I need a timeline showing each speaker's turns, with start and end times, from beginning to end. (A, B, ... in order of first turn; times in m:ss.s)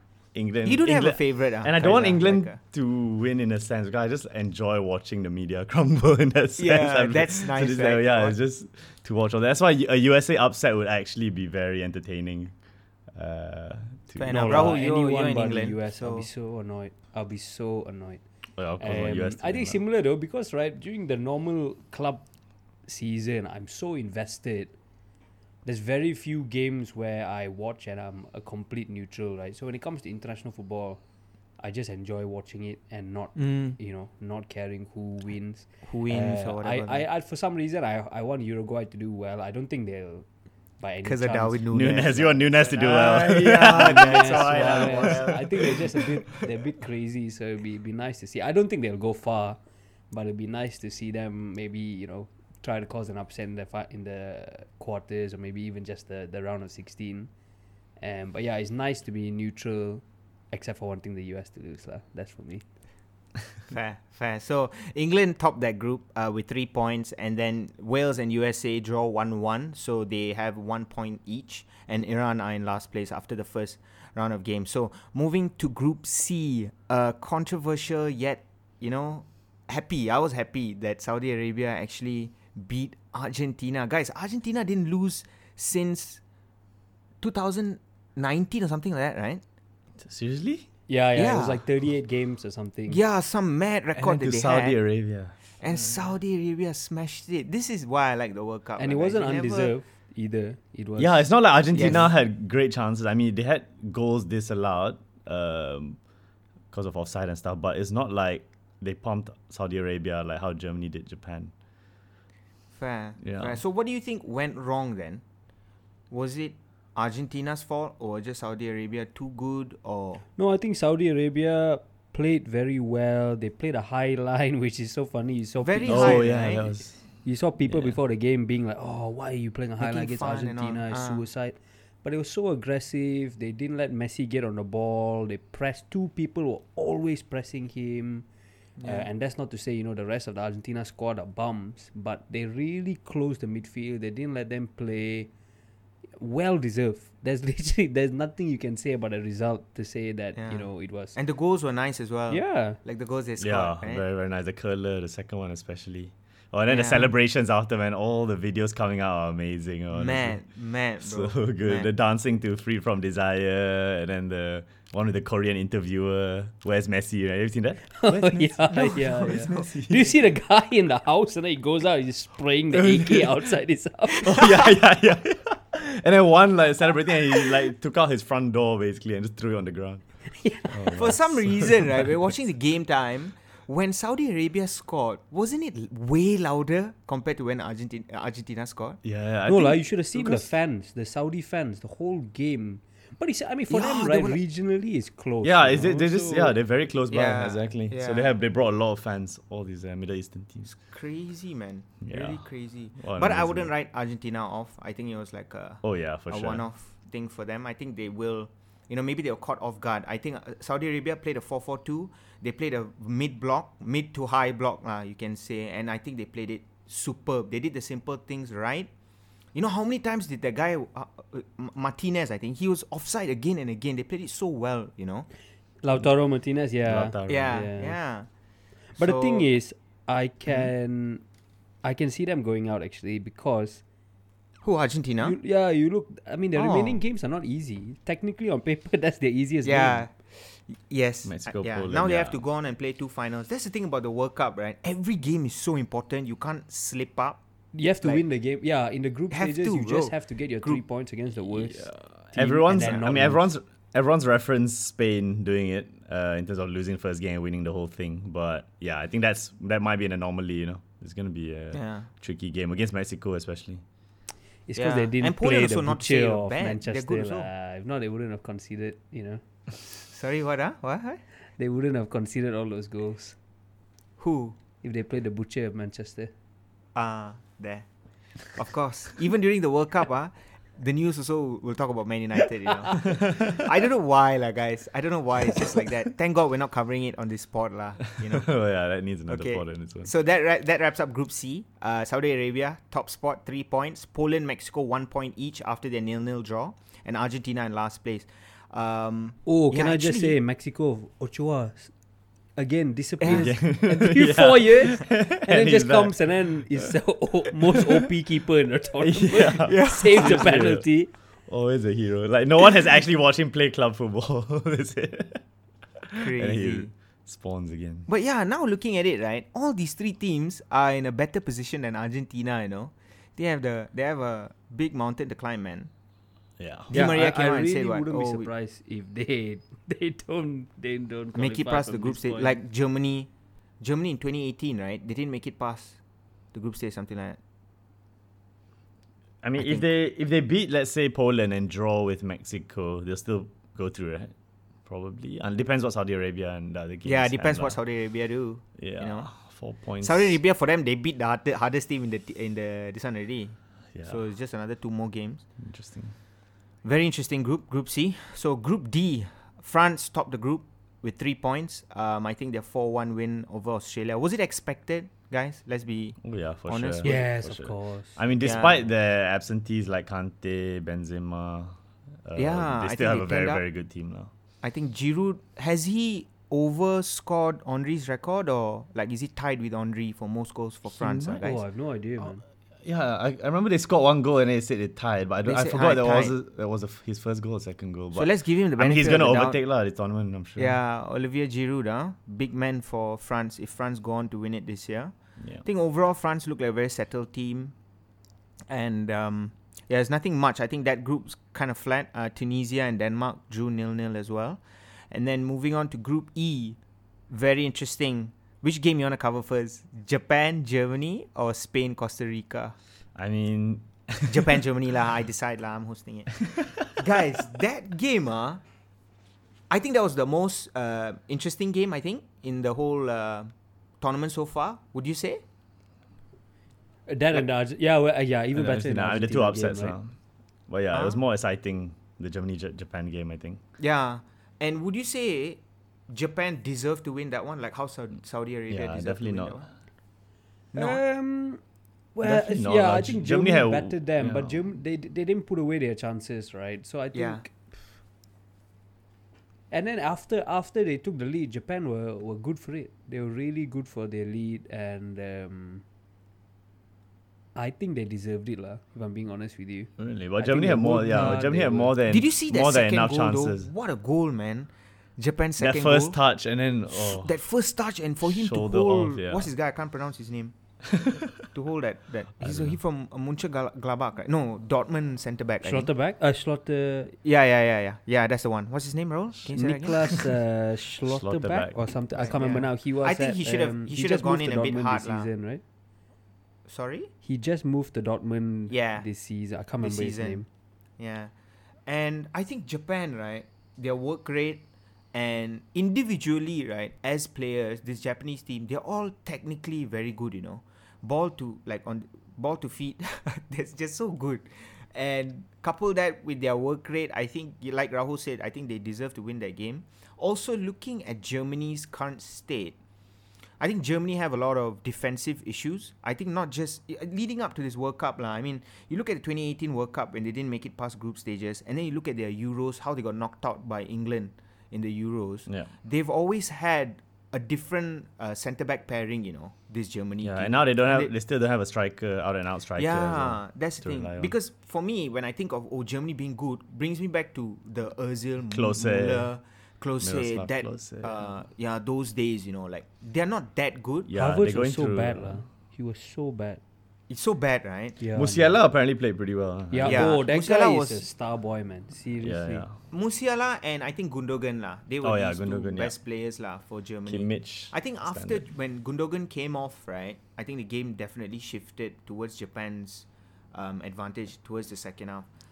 0:00.3-0:12.5 A
0:00.6-0:02.6 B
0:06.6-0:08.4 B
0:13.1-0:14.8 A
0:14.2-0:16.3 B
0:14.3-0:18.2 C
0:18.6-0:19.8 A
0:18.8-0:22.2 C
0:22.8-0:24.7 C
0:25.6-0:31.0 C
0:31.6-0:40.2 C
0:33.3-0:33.8 B
0:35.8-0:37.0 B
0:40.8-0:42.3 C
0:41.0-0:46.3 B
0:41.7-0:45.4 A
0:43.5-0:49.6 C
0:50.1-0:57.3 C
0:58.0-1:02.6 C
1:03.7-1:26.2 B
1:27.2-1:29.4 B
1:30.0-1:30.7 A
1:30.9-1:33.0 C
1:31.2-1:31.6 B
1:32.9-1:34.8 B
1:34.0-1:36.0 A
1:35.6-1:39.7 B
1:38.8-1:42.1 C
1:41.0-1:46.0 A
1:41.7-1:42.1 B
1:46.7-1:51.5 A
1:52.8-1:55.2 B
1:53.2-1:53.6 A
1:56.1-2:00.2 B
2:00.4-2:06.3 C
2:05.6-2:06.6 B
2:05.9-2:08.0 A
2:07.2-2:18.2 C
2:09.8-2:11.2 B
2:18.8-2:19.1 B
2:18.8-2:25.3 C
2:26.2-2:31.2 C
2:30.3-2:34.0 B
2:32.3-2:32.8 C
2:33.4-2:40.4 A
2:36.7-2:37.1 B
2:39.9-2:41.9 B
2:41.0-2:50.1 A
2:48.0-2:54.3 C
2:48.8-2:50.0 B
2:52.7-2:53.3 A
2:54.2-3:00.0 A
3:00.4-3:00.9 C
3:00.6-3:02.1 A
3:00.9-3:09.0 B
3:09.0-3:10.3 A
3:09.4-3:16.5 C
3:13.7-3:14.4 B
3:15.4-3:20.7 A
3:17.1-3:18.3 B
3:20.7-3:38.9 B
3:22.0-3:22.4 A
3:23.0-3:23.7 A
3:25.8-3:26.6 A
3:39.5-3:45.3 B
3:45.8-3:48.0 C
3:46.8-3:47.5 A
3:47.3-3:48.3 B
3:49.0-3:49.4 B
3:49.0-3:51.2 C
3:51.8-3:53.8 C
3:54.6-3:55.4 B
3:55.2-4:00.0 C
3:56.5-3:57.0 B
3:59.6-4:07.4 B
4:01.2-4:02.4 A
4:07.7-4:13.5 C
4:09.3-4:10.8 B
4:11.5-4:23.8 A
4:12.8-4:13.0 B
4:21.7-4:22.1 B
4:24.7-4:29.4 C
4:24.8-4:27.5 B
4:30.1-4:31.2 B
4:31.6-4:33.4 C
4:34.2-4:34.6 B
4:34.8-4:36.3 C
4:36.9-4:37.8 B
4:38.5-4:48.5 B
4:43.1-4:43.5 A
4:48.2-4:50.1 A
4:49.3-5:00.4 B
4:59.4-5:01.9 C
5:02.6-5:11.1 C
5:03.2-5:03.5 B
5:03.3-5:06.9 A
5:09.0-5:10.9 A
5:09.6-5:10.6 B
5:11.5-5:15.4 A
5:16.1-5:18.1 A
5:16.1-5:16.9 B
5:18.1-5:25.9 B
5:26.6-5:27.0 A
5:26.9-5:28.5 B
5:26.9-5:32.6 C
5:31.3-5:33.3 B
5:33.8-5:36.0 B
5:36.5-5:37.4 B
5:39.4-5:44.3 A
5:39.6-5:39.9 B
5:44.8-5:47.8 A
5:47.0-5:49.4 B
5:48.8-5:50.4 A
5:50.0-5:55.4 B
5:55.6-5:56.1 A
5:56.8-6:07.2 B
6:06.2-6:14.3 A
6:07.0-6:08.2 C
6:08.4-6:08.8 B
6:12.4-6:13.6 B
6:14.6-6:21.6 B
6:21.0-6:21.4 A
6:21.4-6:22.4 C
6:22.8-6:30.8 A
6:25.4-6:26.3 B
6:28.1-6:29.6 B
6:30.6-6:37.7 B
6:38.7-6:46.8 B
6:47.3-6:52.8 B
6:53.1-6:54.6 A
6:54.2-6:58.6 B
6:59.7-7:03.5 B
7:04.0-7:05.4 B
7:07.1-7:10.0 C
7:08.5-7:10.1 A
7:10.7-7:13.6 A
7:10.9-7:11.2 B
7:13.8-7:19.7 B
7:18.7-7:19.6 A
7:20.7-7:21.0 B
7:20.8-7:21.6 C
7:22.1-7:27.5 C
7:22.2-7:24.6 A
7:27.1-7:27.4 B
7:29.7-7:35.8 C
7:37.5-7:41.9 C
7:40.0-7:43.7 A
7:42.1-7:46.2 B
7:45.6-7:47.3 A
7:46.9-7:50.5 B
7:48.2-7:49.5 A
7:50.9-7:51.3 A
7:51.5-7:55.9 B
7:52.4-7:52.8 A
7:55.6-7:57.1 C
7:57.2-8:00.2 B
7:59.5-8:05.6 C
8:01.0-8:02.3 A
8:02.2-8:05.3 B
8:06.7-8:07.1 B
8:07.2-8:10.4 C
8:08.7-8:09.0 B
8:09.8-8:10.4 B
8:11.0-8:11.3 B
8:11.9-8:32.8 B
8:33.6-8:51.1 B
8:50.2-8:54.3 A
8:52.8-9:04.1 B
8:58.5-8:59.3 A
9:00.0-9:01.2 A
9:04.1-9:05.4 A
9:04.1-9:06.6 C
9:07.1-9:08.0 B
9:08.0-9:08.6 C
9:08.1-9:10.2 A
9:09.7-9:12.6 C
9:09.8-9:11.0 B
9:12.2-9:12.7 A
9:12.9-9:25.2 B
9:15.0-9:16.0 A
9:17.1-9:18.4 A